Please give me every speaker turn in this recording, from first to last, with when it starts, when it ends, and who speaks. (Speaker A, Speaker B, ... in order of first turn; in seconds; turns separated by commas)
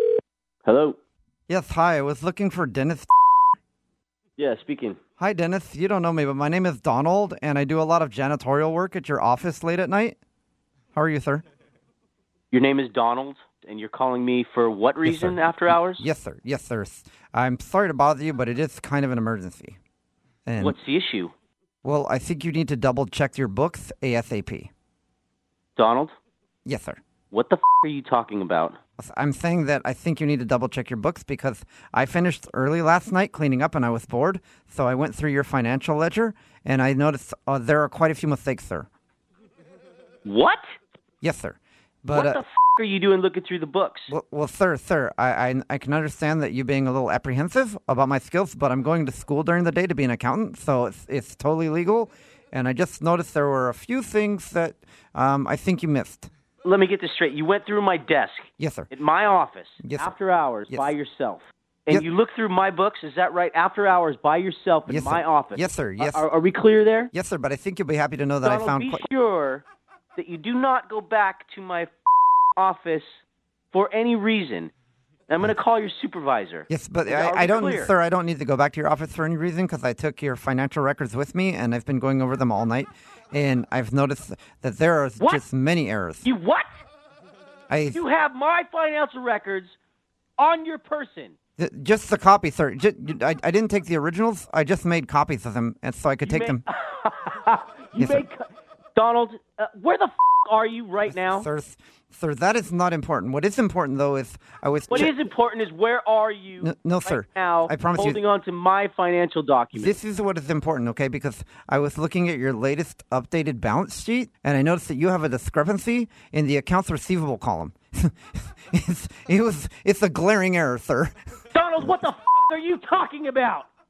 Speaker A: 0.6-1.0, Speaker B: 1.5-3.1, Speaker A: 4.4-5.0, Speaker B: 5.2-10.2, Speaker B: 10.9-11.4, Speaker A: 12.5-16.1, Speaker B: 15.0-19.8, Speaker B: 20.4-20.8, Speaker A: 20.6-21.3, Speaker B: 21.8-24.7, Speaker A: 25.8-26.1, Speaker B: 26.6-27.0, Speaker A: 27.3-28.8, Speaker B: 29.0-38.9, Speaker A: 40.2-40.6, Speaker B: 41.2-42.4, Speaker A: 42.1-44.1, Speaker B: 44.1-56.3, Speaker A: 56.6-67.1, Speaker B: 58.6-58.9, Speaker B: 59.8-60.1, Speaker B: 64.9-66.2, Speaker B: 67.1-69.0, Speaker A: 68.4-71.9, Speaker A: 72.5-73.1, Speaker A: 73.7-74.7, Speaker A: 75.3-77.9, Speaker B: 76.7-86.3, Speaker A: 86.2-86.7, Speaker B: 87.7-88.0, Speaker A: 87.9-89.7, Speaker A: 90.4-91.3, Speaker B: 91.6-96.6, Speaker A: 96.2-101.5, Speaker B: 98.0-98.2, Speaker B: 101.0-105.1, Speaker A: 104.9-110.0, Speaker B: 106.6-108.2, Speaker B: 109.7-121.1, Speaker A: 121.5-123.7